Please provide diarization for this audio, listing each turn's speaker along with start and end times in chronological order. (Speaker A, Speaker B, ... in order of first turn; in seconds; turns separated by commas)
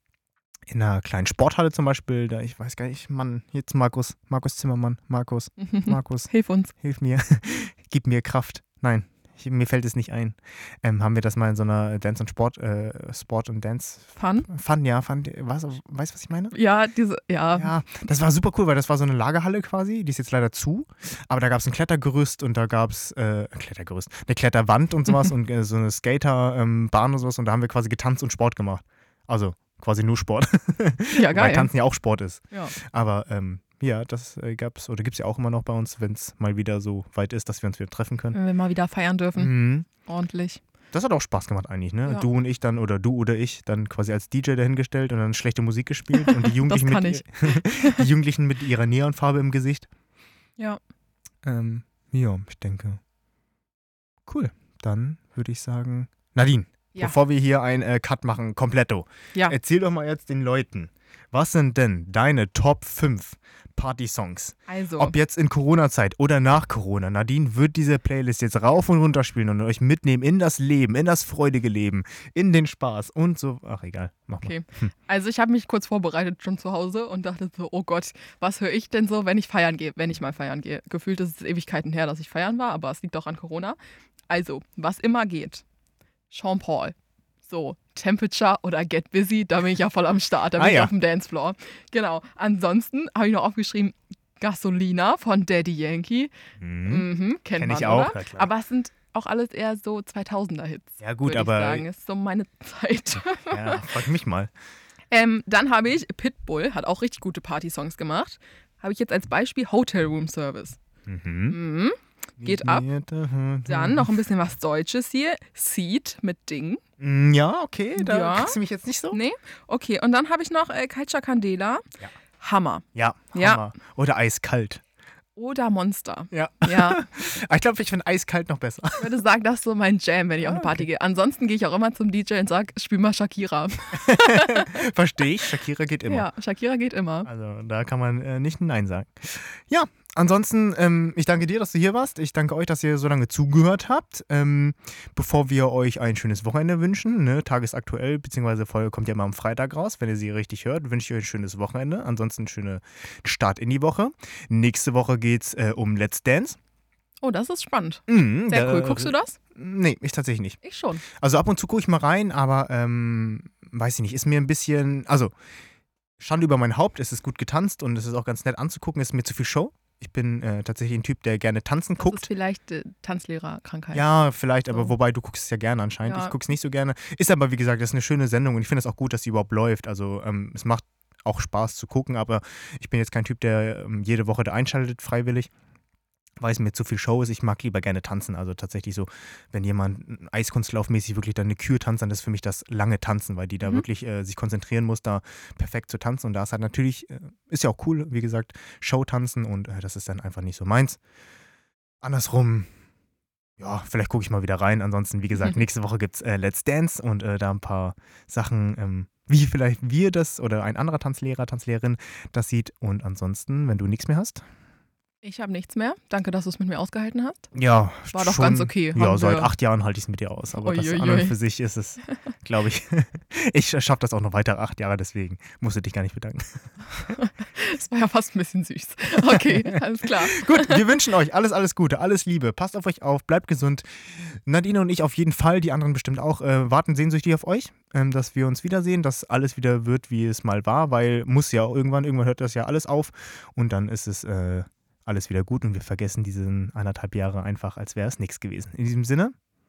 Speaker A: 0.7-16.5, Speaker B: 5.6-6.7, Speaker B: 14.2-14.5, Speaker B: 16.5-17.7, Speaker A: 17.6-38.4, Speaker B: 31.1-31.7, Speaker B: 38.3-40.6, Speaker A: 39.4-39.9, Speaker A: 40.9-49.9, Speaker B: 46.1-48.0, Speaker A: 51.4-53.0, Speaker A: 54.2-74.9, Speaker B: 64.7-65.1, Speaker B: 74.4-83.8, Speaker B: 84.3-85.6, Speaker B: 86.3-86.9, Speaker B: 87.5-96.3, Speaker A: 90.6-90.9, Speaker A: 96.6-97.1, Speaker B: 96.9-103.9, Speaker A: 97.6-98.5, Speaker A: 101.0-101.8, Speaker A: 103.5-104.5, Speaker B: 105.1-110.8, Speaker A: 111.0-111.6, Speaker B: 111.5-112.8, Speaker A: 112.4-114.1, Speaker B: 113.7-116.8, Speaker A: 117.0-119.2, Speaker B: 118.0-118.6, Speaker B: 119.1-121.8, Speaker B: 122.4-123.6, Speaker A: 122.9-124.8, Speaker B: 125.3-127.0, Speaker A: 126.3-129.2, Speaker B: 129.0-134.8, Speaker A: 130.4-130.8, Speaker A: 133.9-136.3, Speaker B: 136.1-137.3, Speaker A: 137.2-156.6, Speaker B: 157.2-159.4, Speaker A: 158.1-165.3, Speaker B: 160.6-161.0, Speaker A: 166.2-172.2, Speaker B: 172.0-174.0, Speaker A: 173.9-185.5, Speaker B: 176.0-176.3, Speaker A: 186.4-201.0, Speaker A: 202.0-202.7, Speaker A: 203.6-214.4, Speaker B: 215.2-217.5, Speaker A: 217.5-227.1, Speaker B: 218.1-219.5, Speaker B: 220.6-221.3, Speaker B: 226.9-230.8, Speaker A: 229.2-249.3